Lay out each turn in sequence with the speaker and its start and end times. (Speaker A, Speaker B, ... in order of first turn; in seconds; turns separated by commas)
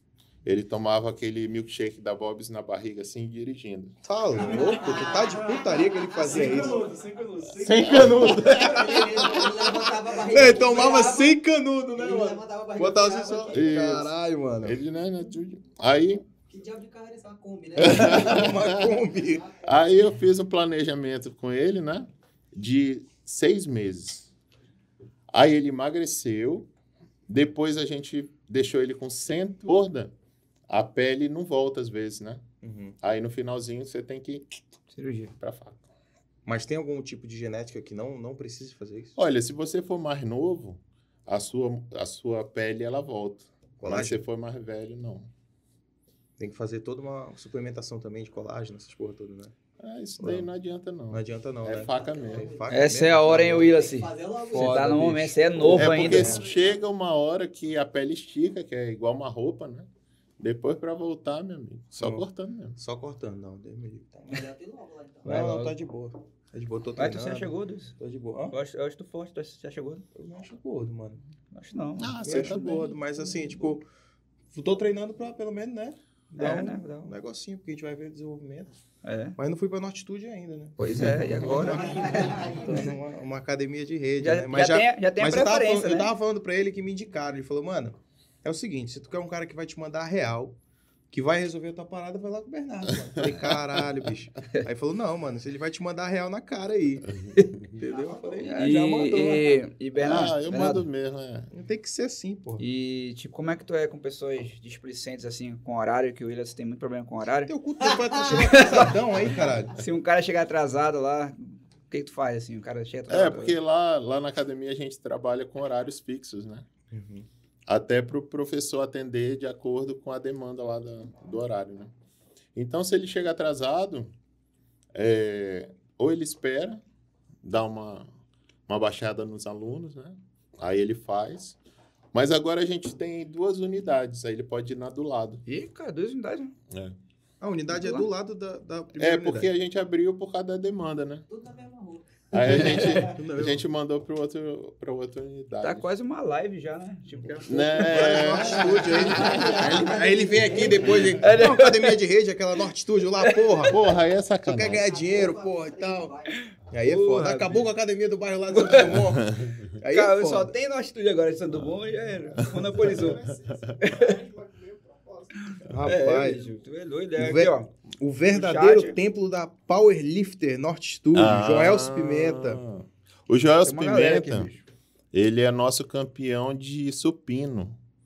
Speaker A: 0.5-4.0, Speaker B: 4.0-6.8, Speaker C: 4.3-8.9, Speaker D: 4.4-7.0, Speaker B: 7.6-14.8, Speaker A: 7.7-8.8, Speaker D: 8.4-11.4, Speaker D: 12.0-13.7, Speaker A: 13.5-16.2, Speaker D: 16.4-19.8, Speaker A: 17.8-18.8, Speaker B: 17.8-19.4, Speaker A: 19.6-24.3, Speaker A: 25.3-26.7, Speaker A: 27.3-30.1, Speaker A: 30.7-32.4, Speaker B: 32.6-33.0, Speaker A: 33.0-34.5, Speaker E: 34.9-35.3, Speaker A: 35.4-35.9, Speaker B: 36.5-39.2, Speaker A: 39.2-45.3, Speaker B: 43.8-44.2, Speaker B: 46.4-49.5, Speaker A: 49.8-52.5, Speaker B: 50.2-50.5, Speaker B: 51.1-53.7, Speaker D: 51.8-52.9, Speaker E: 52.7-56.4, Speaker D: 53.6-55.2, Speaker B: 54.5-56.5, Speaker A: 55.7-59.9, Speaker D: 56.2-56.7, Speaker A: 60.4-62.8, Speaker B: 62.0-62.2, Speaker B: 62.8-64.4, Speaker D: 64.3-65.4, Speaker E: 65.2-65.7, Speaker B: 65.2-68.6, Speaker E: 67.0-68.0, Speaker E: 68.5-70.1, Speaker B: 70.2-71.2, Speaker E: 71.5-72.3, Speaker A: 72.0-73.0, Speaker B: 72.2-73.8, Speaker B: 74.5-78.7, Speaker E: 76.4-77.1, Speaker E: 79.0-79.4, Speaker B: 79.4-80.8, Speaker E: 80.8-82.9, Speaker B: 81.3-90.6, Speaker D: 81.7-82.9, Speaker E: 84.2-86.1, Speaker B: 91.1-97.1, Speaker A: 93.0-93.6, Speaker B: 97.7-99.6, Speaker D: 97.8-98.9, Speaker E: 98.4-100.8, Speaker A: 100.0-101.5, Speaker B: 101.5-102.6, Speaker E: 102.6-107.5, Speaker B: 107.5-109.8, Speaker D: 107.9-108.7, Speaker E: 108.4-108.9, Speaker E: 109.8-113.6, Speaker A: 113.1-116.7, Speaker B: 116.9-117.3, Speaker A: 117.7-121.9, Speaker A: 122.5-124.1, Speaker A: 125.0-126.8, Speaker A: 127.4-128.1, Speaker A: 128.7-131.6, Speaker A: 132.1-135.4, Speaker E: 135.5-136.5, Speaker A: 136.7-137.0, Speaker B: 137.4-139.5, Speaker E: 137.7-138.1, Speaker A: 139.0-141.2, Speaker D: 141.3-143.0, Speaker A: 142.3-145.9, Speaker E: 142.5-143.0, Speaker B: 143.0-143.6, Speaker E: 145.6-149.8, Speaker A: 147.5-150.0, Speaker B: 147.6-153.8, Speaker D: 149.1-151.2, Speaker E: 150.5-152.0, Speaker E: 153.2-153.7, Speaker A: 153.7-154.9, Speaker B: 154.4-156.1, Speaker D: 154.7-156.5, Speaker B: 156.7-160.5, Speaker E: 156.8-157.7, Speaker E: 158.5-159.1, Speaker A: 159.0-159.7, Speaker E: 159.8-163.2, Speaker A: 161.6-163.8, Speaker C: 162.9-165.6, Speaker E: 163.8-164.2, Speaker E: 165.5-167.7, Speaker B: 165.7-166.4, Speaker B: 167.2-172.6, Speaker E: 168.3-169.0, Speaker A: 171.1-174.5, Speaker E: 173.7-174.6, Speaker A: 175.1-177.8